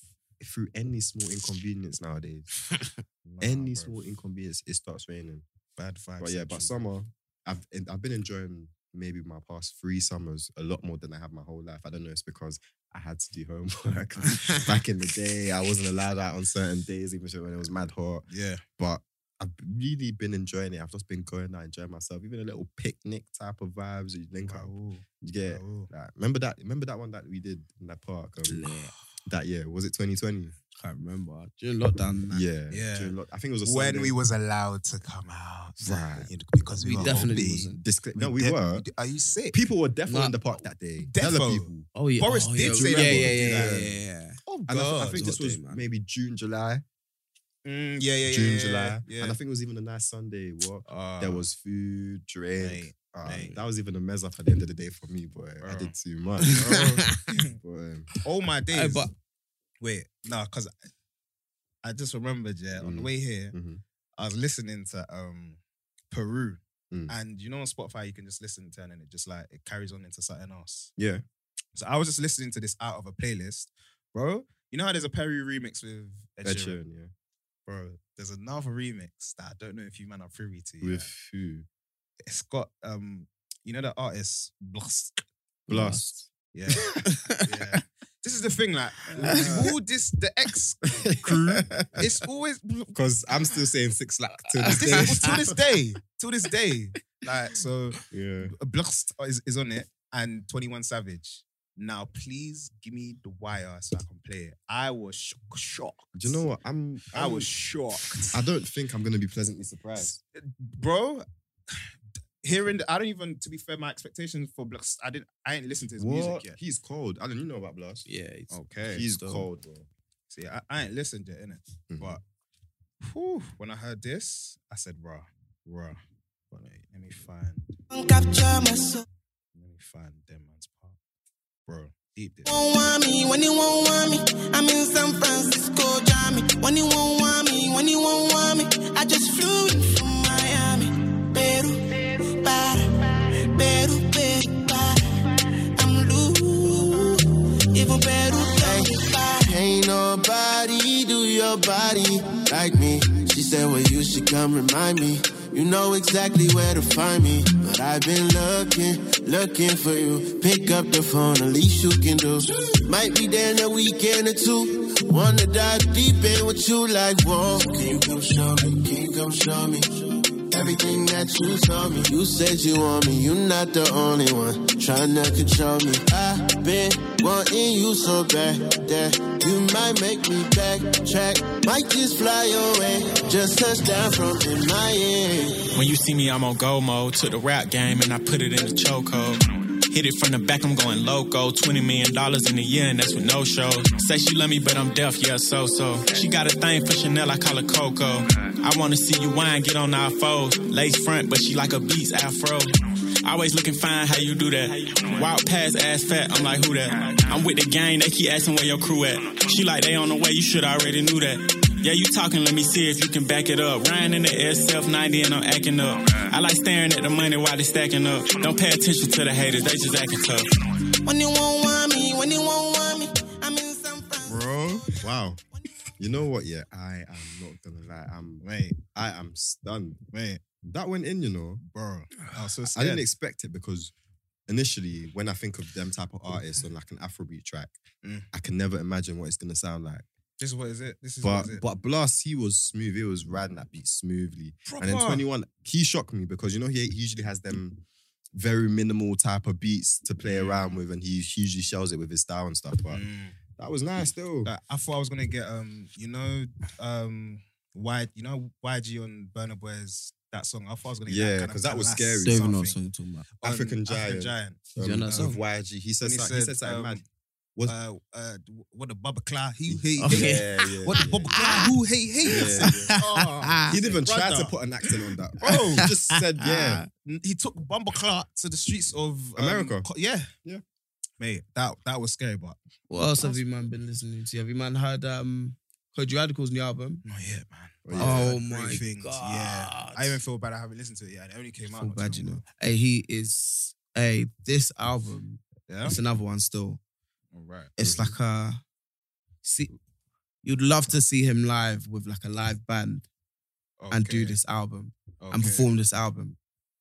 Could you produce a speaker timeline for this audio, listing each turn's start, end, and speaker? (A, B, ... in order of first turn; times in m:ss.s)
0:00.4-0:02.5 A
0:03.2-0:03.9 B
0:03.4-0:05.4 A
0:05.8-0:06.7 B
0:06.2-0:18.2 A
0:18.3-0:18.6 B
0:18.8-0:30.5 A
0:24.4-0:25.9 B
0:28.5-0:28.9 C
0:30.8-0:32.4 C
0:32.3-0:34.2 A
0:32.7-0:39.6 B
0:35.8-0:36.3 A
0:36.8-0:37.8 C
0:36.9-0:38.8 A
0:39.5-0:41.9 A
0:40.1-0:40.4 C
0:41.0-0:43.7 B
0:41.9-0:44.4 C
0:42.6-0:44.0 A
0:44.5-0:45.2 B
0:44.7-0:46.8 A
0:45.1-0:45.8 C
0:47.6-0:49.4 B
0:48.3-0:58.1 A
0:50.9-0:51.4 B
0:52.6-0:53.6 B
0:55.6-0:55.9 B
0:56.6-0:57.5 B
0:56.7-0:57.2 C
0:58.2-0:59.1 B
0:58.7-0:59.1 C
0:59.8-1:00.7 B
1:01.8-1:03.5 B
1:02.8-1:03.8 A
1:04.2-1:05.6 B
1:06.1-1:10.9 B
1:11.0-1:11.2 A
1:11.7-1:16.8 B
1:16.4-1:17.1 A
1:17.6-1:21.1 B
1:20.8-1:21.6 A
1:22.2-1:25.2 B
1:25.7-1:26.3 A
1:25.7-1:26.1 C
1:26.5-1:31.3 B
1:27.0-1:27.5 C
1:29.2-1:29.7 A
1:29.2-1:29.6 C
1:31.0-1:31.9 A
1:31.9-1:32.9 B
1:32.9-1:35.5 A
1:34.6-1:35.3 C
1:34.7-1:46.4 B
1:38.1-1:38.5 A
1:46.2-1:47.5 A
1:47.1-1:48.3 B
1:48.3-1:50.2 A
1:50.0-1:51.8 B
1:52.4-1:56.6 B
1:56.0-1:58.1 A
1:58.0-1:59.5 C
1:58.5-1:59.1 B
1:58.9-1:59.9 A
2:00.3-2:02.2 B
2:01.9-2:02.2 A
2:03.0-2:06.0 B
2:06.5-2:07.7 B
2:07.9-2:09.0 D
2:09.5-2:11.0 B
2:11.7-2:12.5 B
2:12.5-2:25.0 D
2:25.7-2:29.5 D
2:28.5-3:05.6 E
3:05.7-3:22.7 F
3:23.2-3:40.5 F
3:41.0-3:44.4 D
3:44.2-3:45.4 A
3:46.0-3:48.4 A
3:48.4-3:48.8 B
3:48.9-3:50.0 A
3:50.1-3:50.4 B
3:50.6-3:51.6 A
3:51.6-3:53.0 B
3:52.6-3:53.9 A
3:54.5-3:57.8 A
3:58.0-3:58.3 B
3:58.3-4:00.0 A
4:00.4-4:01.6 B
4:01.2-4:07.8 A
4:04.7-4:05.2 B
4:08.3-4:13.0 A
4:10.2-4:10.8 B
4:12.9-4:13.4 B
4:13.6-4:14.5 A
4:14.4-4:22.8 B
4:21.1-4:22.4 A
4:22.2-4:23.3 C
4:23.4-4:25.4 B
4:23.4-4:27.0 A
4:24.8-4:25.4 C
4:26.0-4:27.0 B
4:27.6-4:34.5 B
4:29.7-4:31.4 A
4:30.0-4:30.6 C
4:31.3-4:31.7 C
4:32.2-4:33.0 A
4:32.3-4:33.7 C
4:33.7-4:36.8 A
4:35.4-4:35.9 B
4:35.8-4:36.8 C
4:37.0-4:40.3 B
4:39.4-4:39.9 A
4:41.2-4:42.6 B
4:42.9-4:47.0 C
4:47.0-4:52.4 B
4:47.8-4:48.8 A
4:48.0-4:50.2 C
4:51.7-4:56.8 C
4:55.7-4:56.0 B
4:57.3-4:57.7 B
4:57.8-4:58.6 C
4:57.8-4:58.2 A
4:59.4-4:59.7 C
5:00.4-5:03.0 C
5:03.8-5:04.4 B
5:03.9-5:06.4 C
5:05.2-5:05.7 B